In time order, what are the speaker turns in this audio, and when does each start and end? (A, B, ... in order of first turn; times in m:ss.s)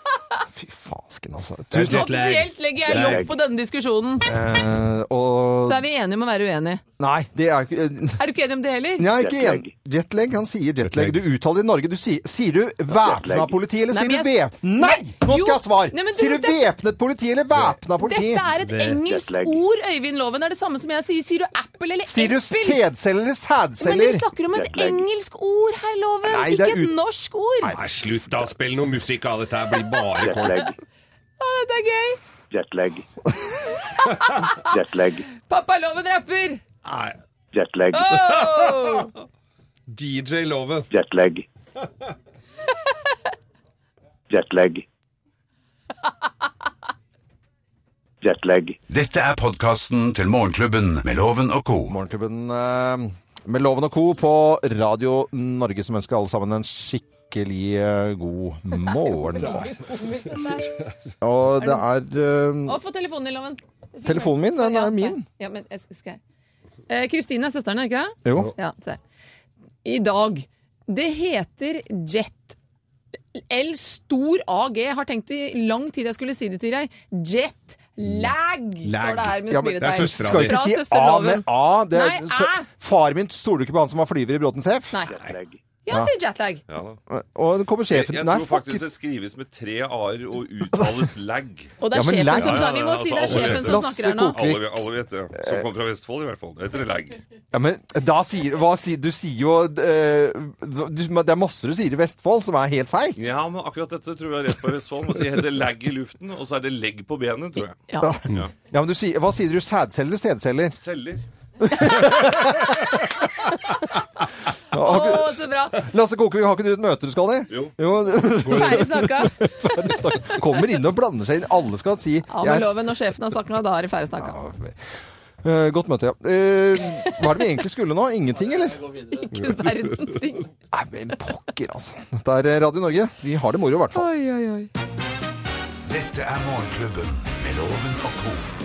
0:00.5-0:02.1 A
0:01.7-0:03.2 B
0:01.8-0:04.2 C
0:03.0-0:03.3 D
0:04.2-0:05.8 A
0:05.6-0:06.8 C
0:07.0-0:08.2 A
0:08.2-0:09.1 C
0:09.0-0:18.6 A
0:09.1-0:09.7 D
0:10.8-0:11.2 B
0:13.0-0:13.6 D
0:13.9-0:16.7 C
0:18.0-0:22.8 C
0:18.6-0:19.6 D
0:22.0-0:24.2 A
0:23.8-0:27.8 C
0:24.5-0:25.0 D
0:26.2-0:27.0 A
0:27.6-0:28.5 A
0:27.7-0:30.7 B
0:30.2-0:30.7 D
0:30.4-0:30.7 C
0:31.4-0:32.2 C
0:32.5-0:33.0 D
0:33.8-0:34.7 C
0:34.6-0:35.2 D
0:35.4-0:36.6 C
0:36.8-0:37.2 B
0:37.5-0:38.2 D
0:37.9-0:39.1 C
0:38.1-0:39.0 B
0:39.9-0:40.9 B
0:40.9-0:41.4 D
0:44.3-0:44.8 D
0:48.2-0:48.8 D
0:48.9-0:52.0 E
0:51.9-0:59.7 A
0:58.8-1:00.8 C
1:01.2-1:02.8 A
1:02.6-1:06.2 C
1:04.0-1:05.2 A
1:06.9-1:09.0 C
1:08.2-1:08.5 A
1:09.8-1:12.6 C
1:13.3-1:22.7 C
1:18.8-1:20.6 B
1:19.5-1:25.0 A
1:25.1-1:25.6 D
1:25.1-1:25.4 F
1:25.8-1:26.6 C
1:26.7-1:27.0 F
1:27.1-1:28.9 A
1:27.9-1:37.2 F
1:30.8-1:31.0 A
1:31.8-1:34.4 C
1:31.9-1:35.6 A
1:37.5-1:43.2 A
1:43.2-1:48.5 F
1:47.9-1:48.1 C
1:48.0-1:50.8 A
1:50.8-1:51.2 F
1:51.6-1:53.0 A
1:54.7-2:02.8 A
1:54.7-1:55.8 C
1:58.4-1:59.7 C
2:02.3-2:04.4 C
2:04.2-2:04.8 A
2:05.4-2:08.9 A
2:09.0-2:10.5 C
2:09.4-2:10.0 B
2:10.7-2:14.1 A
2:13.9-2:14.7 C
2:15.9-2:18.4 E